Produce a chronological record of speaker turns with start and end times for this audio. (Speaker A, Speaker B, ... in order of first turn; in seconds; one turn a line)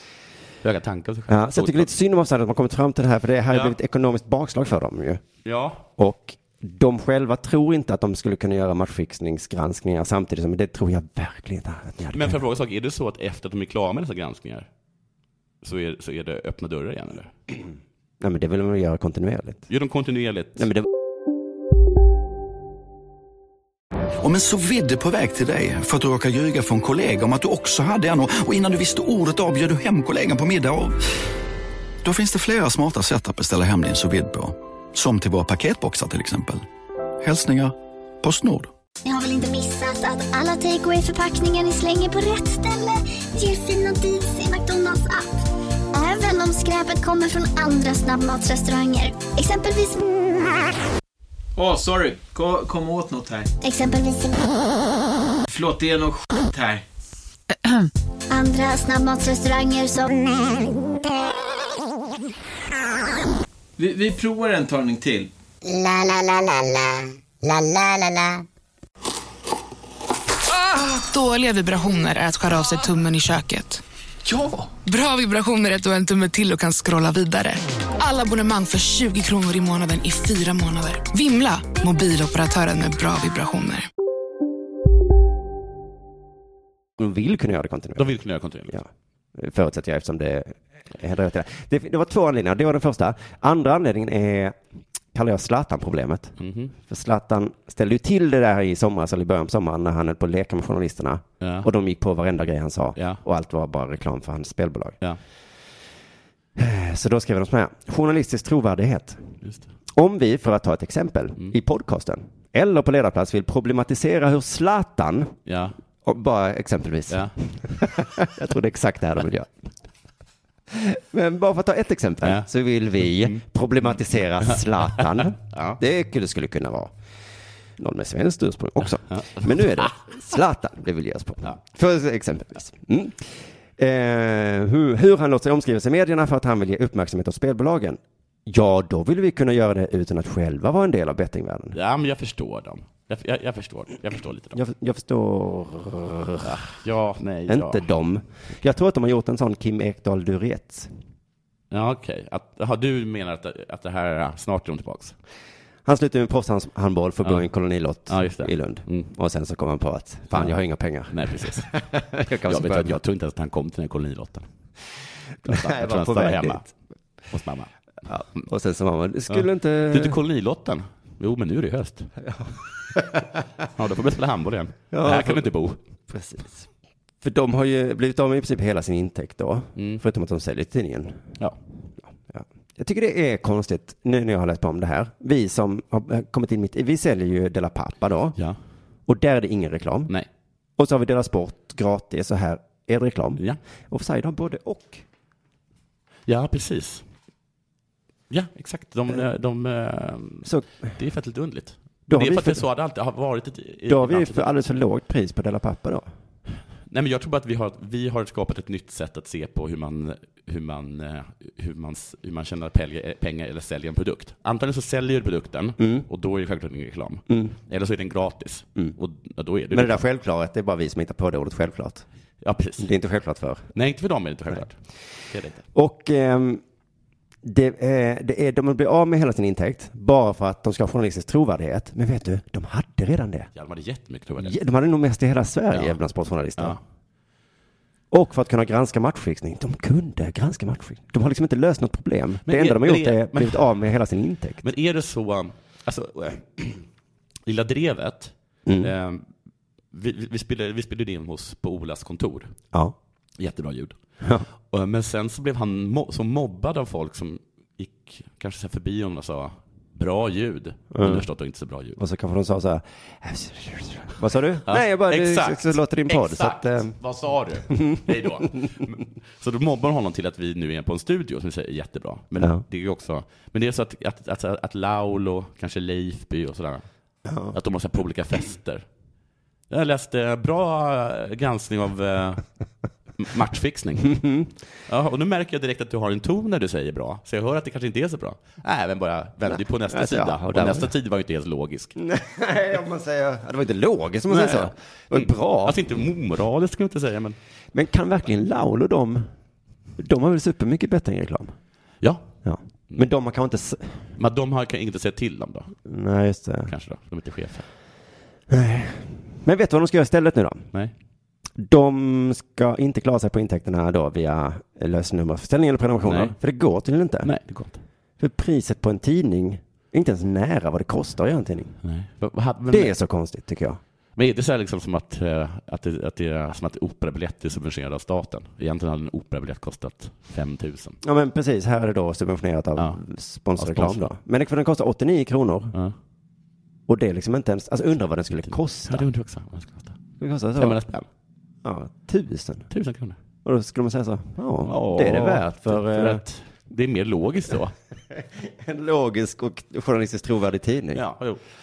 Speaker A: 0.6-1.9
Speaker B: 1.3-5.2
Speaker A: 5.4-5.8
Speaker B: 6.0-12.4
Speaker A: 12.1-14.7
Speaker A: 15.6-17.3
Speaker B: 18.2-19.6
Speaker A: 19.7-20.7
Speaker B: 20.6-20.9
Speaker C: 24.2-30.9
Speaker C: 32.0-34.4
Speaker C: 35.0-36.5
Speaker C: 37.2-37.7
Speaker C: 38.2-38.6
Speaker D: 39.0-45.3
Speaker D: 45.9-50.2
Speaker E: 51.5-53.5
Speaker D: 53.6-54.6
Speaker E: 55.5-56.8
Speaker D: 58.3-60.8
Speaker E: 63.8-65.3
Speaker D: 65.6-68.4
Speaker F: 70.9-73.8
Speaker F: 74.8-83.9
Speaker B: 87.0-88.1
Speaker A: 88.0-88.8
Speaker B: 88.7-94.6
Speaker B: 95.1-105.0
Speaker A: 96.4-96.7
Speaker A: 101.4-101.7
Speaker A: 103.0-103.2
Speaker B: 106.5-109.2
Speaker A: 109.4-109.7
Speaker B: 109.9-115.3
Speaker A: 115.5-115.8
Speaker B: 116.0-119.5
Speaker A: 117.1-117.3
Speaker B: 120.7-126.9
Speaker A: 122.2-122.5
Speaker A: 123.0-123.4
Speaker A: 124.5-125.8
Speaker B: 127.8-141.8
Speaker A: 129.1-129.9
Speaker A: 141.7-144.6
Speaker B: 144.5-146.6
Speaker A: 146.4-147.8
Speaker B: 147.5-150.9
Speaker A: 151.7-155.2
Speaker B: 155.8-163.0
Speaker A: 158.1-159.1
Speaker A: 161.1-161.7
Speaker A: 162.4-164.5
Speaker B: 165.4-166.7
Speaker A: 165.4-166.7
Speaker A: 167.3-167.7
Speaker B: 168.1-170.2
Speaker A: 169.3-172.1
Speaker B: 172.2-173.3
Speaker A: 173.7-175.8
Speaker B: 174.9-175.5
Speaker B: 176.1-176.7
Speaker B: 177.2-181.2
Speaker A: 179.8-180.0
Speaker B: 182.2-188.4
Speaker B: 189.1-190.1
Speaker B: 190.8-195.0
Speaker A: 196.3-197.0
Speaker A: 198.3-204.5
Speaker B: 200.4-200.7
Speaker B: 202.1-202.6
Speaker B: 203.9-206.1
Speaker A: 206.9-220.0
Speaker B: 215.8-216.1
Speaker B: 217.3-217.5
Speaker B: 219.7-222.0
Speaker A: 222.4-222.9
Speaker B: 222.8-223.7
Speaker A: 223.7-224.8
Speaker A: 225.3-225.6
Speaker B: 225.7-226.6
Speaker B: 227.4-233.5
Speaker A: 233.5-234.6
Speaker B: 234.4-236.8
Speaker A: 235.7-236.0
Speaker B: 238.1-244.6
Speaker A: 242.4-243.7
Speaker A: 244.6-246.8
Speaker A: 247.4-249.3
Speaker B: 248.7-248.9
Speaker A: 249.9-252.5
Speaker A: 253.4-253.9
Speaker A: 254.7-262.0
Speaker B: 260.9-261.2
Speaker B: 262.0-266.9
Speaker A: 264.6-276.8
Speaker B: 267.8-268.1
Speaker B: 272.4-272.6
Speaker B: 277.2-277.6
Speaker A: 277.5-278.9
Speaker A: 279.7-282.4
Speaker A: 283.2-284.2
Speaker B: 284.1-284.5
Speaker A: 284.9-291.9
Speaker B: 289.5-290.9
Speaker B: 291.9-295.8
Speaker A: 294.3-297.4
Speaker B: 297.7-299.3
Speaker B: 300.0-301.5
Speaker A: 302.0-302.3
Speaker B: 302.4-304.0
Speaker A: 304.2-305.7
Speaker B: 305.8-306.7
Speaker A: 306.7-307.7
Speaker B: 308.5-310.7
Speaker B: 311.6-317.3
Speaker A: 316.0-316.3
Speaker A: 317.2-317.8
Speaker B: 318.2-321.8
Speaker A: 321.8-322.9
Speaker B: 322.7-323.8
Speaker A: 324.1-331.0
Speaker B: 331.0-335.7
Speaker A: 333.6-334.1
Speaker B: 336.9-339.0
Speaker A: 338.5-340.0
Speaker B: 340.2-340.8
Speaker A: 340.6-341.1
Speaker B: 341.6-342.7
Speaker A: 342.7-343.2
Speaker B: 343.4-346.2
Speaker A: 344.6-347.7
Speaker B: 348.1-351.0
Speaker A: 350.9-351.4